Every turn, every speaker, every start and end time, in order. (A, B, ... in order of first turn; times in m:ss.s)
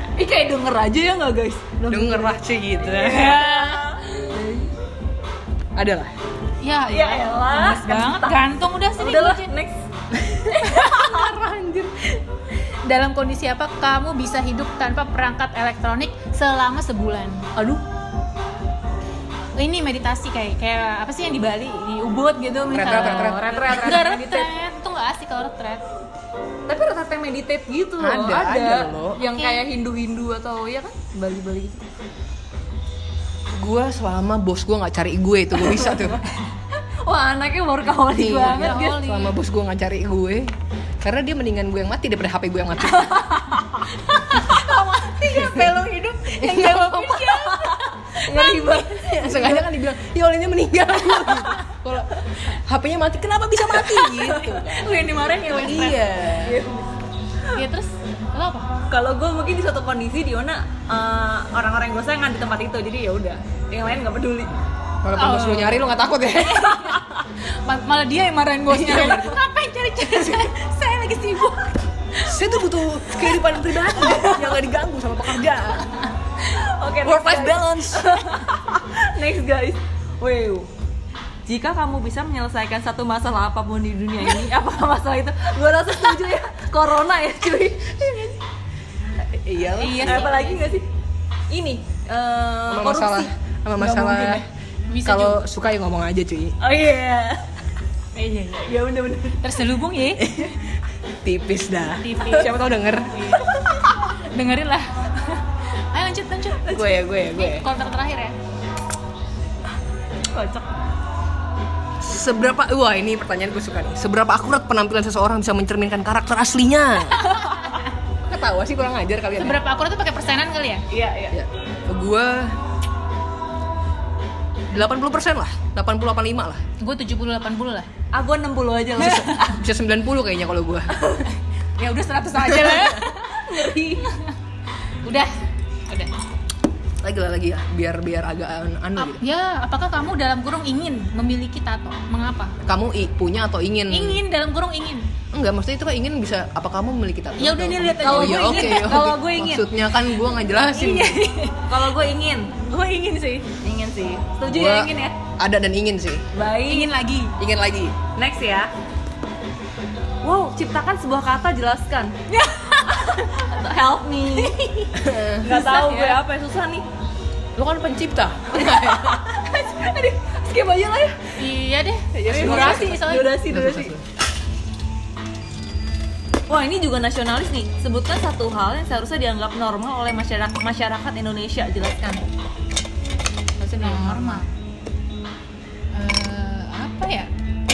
0:00.2-0:04.7 A
0:01.9-0:03.4 B
0:03.1-0:04.2 C
0:05.8-0:06.1 B
0:06.6-0:09.5 C
0:06.9-0:09.8 A
0:10.1-0:12.1 B
0:10.5-0:11.3 A
0:10.6-0:11.2 C
0:12.8-0:17.5 C
0:17.6-0:17.8 A
0:19.6-0:25.8 C
0:22.7-0:23.6 B
0:22.8-0:24.5 A
0:26.7-0:31.8 A
0:28.0-0:29.2 B
0:29.3-0:29.6 C
0:33.5-0:36.2 B
0:35.6-0:39.0 A
0:38.1-0:40.5 B
0:38.4-0:39.4 C
0:41.0-0:43.3 B
0:42.8-0:45.8 A
0:44.3-0:48.8 C
0:45.3-0:45.6 B
0:46.4-0:47.3 B
0:46.6-0:49.6 A
0:48.6-0:56.6 B
0:53.8-0:54.7 A
0:54.5-0:56.0 C
0:56.3-0:56.9 A
0:57.5-0:58.7 C
0:58.9-1:04.5 A
1:05.0-1:07.0 B
1:05.2-1:05.9 C
1:06.4-1:07.0 C
1:07.6-1:12.3 C
1:08.7-1:09.4 B
1:10.0-1:10.4 B
1:12.2-1:16.0 B
1:14.0-1:14.5 A
1:16.4-1:20.7 A
1:17.0-1:18.2 B
1:21.4-1:28.4 A
1:29.3-1:30.3 B
1:29.8-1:30.6 C
1:29.9-1:30.8 A
1:31.5-1:34.4 A
1:32.7-1:34.4 B
1:34.9-1:35.4 C
1:35.0-1:36.6 B
1:36.6-1:37.4 A
1:38.1-1:38.8 C
1:38.6-1:39.4 A
1:39.4-1:40.4 C
1:40.2-1:40.6 B
1:41.2-1:43.4 B
1:42.0-1:43.5 C
1:44.0-1:48.4 C
1:46.6-1:47.7 B
1:50.3-1:50.7 A
1:52.0-1:57.3 B
1:57.3-1:57.8 C
1:58.2-1:59.6 B
1:59.4-2:00.8 C
2:00.9-2:01.4 A
2:01.3-2:02.6 B
2:04.7-2:06.6 B
2:06.8-2:07.9 C
2:08.1-2:09.6 A
2:09.0-2:11.0 B
2:09.0-2:09.6 C
2:10.9-2:11.3 A
2:11.8-2:13.4 C
2:12.6-2:14.1 A
2:15.0-2:15.3 C
2:17.0-2:19.2 B
2:19.0-2:22.6 C
2:22.6-2:24.2 B
2:23.9-2:25.1 C
2:25.3-2:31.3 B
2:27.4-2:29.1 C
2:28.0-2:29.7 A
2:30.7-2:31.7 C
2:31.5-2:32.5 A
2:32.6-2:33.5 C
2:33.6-2:35.2 A
2:34.4-2:36.3 B
2:36.3-2:37.0 A
2:36.7-2:37.4 C
2:37.4-2:38.0 B
2:38.1-2:38.7 A
2:40.2-2:46.8 A
2:42.4-2:43.3 C
2:44.3-2:44.9 C
2:45.0-2:45.4 B
2:45.4-2:46.2 C
2:47.6-2:49.3 B
2:48.5-2:51.4 A
2:51.4-2:53.4 C
2:52.1-2:54.0 B
2:52.3-2:53.9 A
2:56.5-3:02.2 A
3:03.6-3:04.4 A
3:03.7-3:04.5 C
3:05.9-3:07.3 C